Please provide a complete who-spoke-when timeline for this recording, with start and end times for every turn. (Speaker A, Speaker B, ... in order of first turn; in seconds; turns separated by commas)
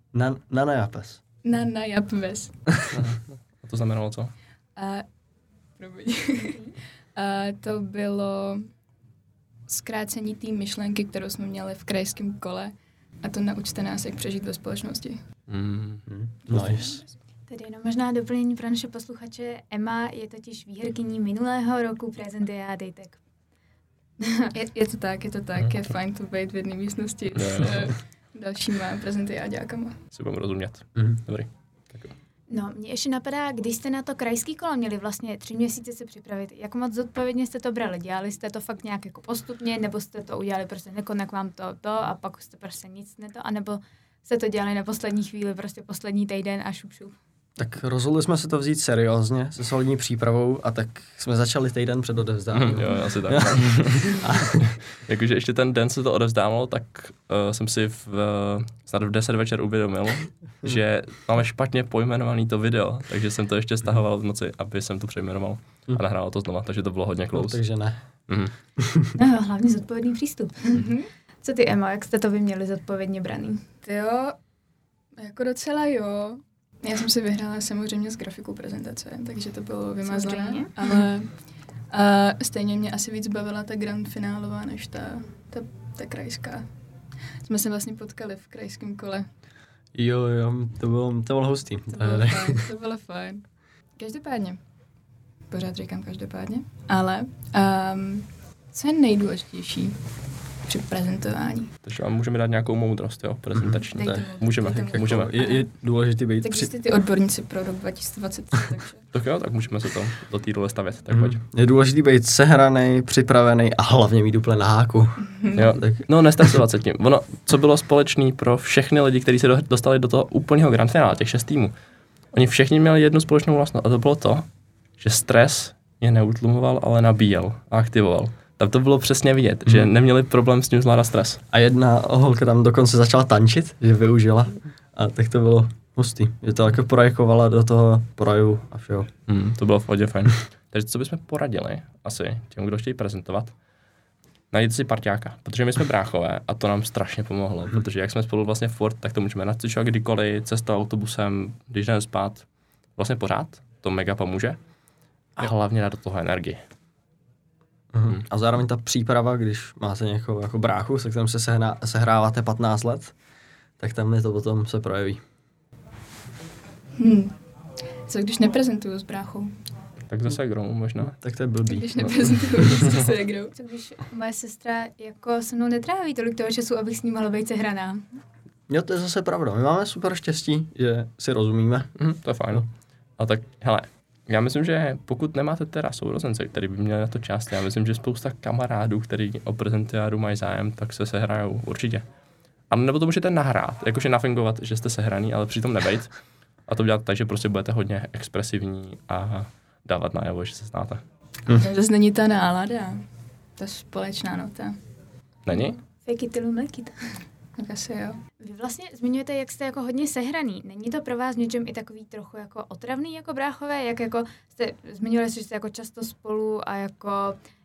Speaker A: 0.1-1.2, Speaker B: 1.4-2.5, Speaker A: 2.7-3.0, Speaker C: 2.9-4.3, Speaker B: 4.8-5.1, Speaker B: 5.8-6.6, Speaker D: 6.4-6.8, Speaker B: 7.2-8.7, Speaker B: 9.7-15.2, Speaker C: 15.5-16.1, Speaker A: 16.1-17.0, Speaker B: 16.6-16.9, Speaker D: 17.5-23.2, Speaker D: 24.2-24.5, Speaker B: 24.5-30.0, Speaker C: 27.4-27.9, Speaker C: 30.1-32.1, Speaker D: 32.5-47.1, Speaker A: 47.6-54.7, Speaker C: 52.5-67.6, Speaker A: 67.3-68.0, Speaker A: 68.8-69.2, Speaker D: 69.2-70.9, Speaker B: 70.7-71.1, Speaker D: 71.4-73.7, Speaker B: 73.8-74.4, Speaker B: 75.2-81.3, Speaker D: 80.1-80.7, Speaker B: 81.9-86.7, Speaker B: 87.4-89.3, Speaker A: 90.0-92.6, Speaker B: 91.9-93.5, Speaker B: 94.0-94.6, Speaker B: 95.5-100.0, Speaker B: 100.7-101.7, Speaker C: 101.8-105.3, Speaker A: 103.6-106.7, Speaker B: 103.9-105.7, Speaker B: 106.4-109.1, Speaker C: 109.1-111.4, Speaker A: 111.1-116.6, Speaker B: 115.2-115.7, Speaker C: 115.5-121.7, Speaker C: 122.3-124.5, Speaker C: 125.0-131.4, Speaker A: 131.5-139.1, Speaker C: 139.3-143.5, Speaker C: 144.5-152.4, Speaker C: 153.0-154.6, Speaker C: 155.4-156.6, Speaker A: 157.9-163.1, Speaker A: 163.8-165.2, Speaker B: 167.0-167.3, Speaker B: 168.1-169.5, Speaker C: 170.1-171.2, Speaker A: 171.0-172.7, Speaker B: 171.7-173.5, Speaker C: 172.7-172.9, Speaker D: 173.6-178.1, Speaker A: 178.7-181.9, Speaker C: 182.0-192.1, Speaker C: 192.7-196.2, Speaker C: 196.7-201.0, Speaker B: 201.5-203.0, Speaker B: 203.6-204.8, Speaker C: 205.5-205.8, Speaker D: 206.0-206.9, Speaker B: 207.6-208.2, Speaker D: 208.4-217.4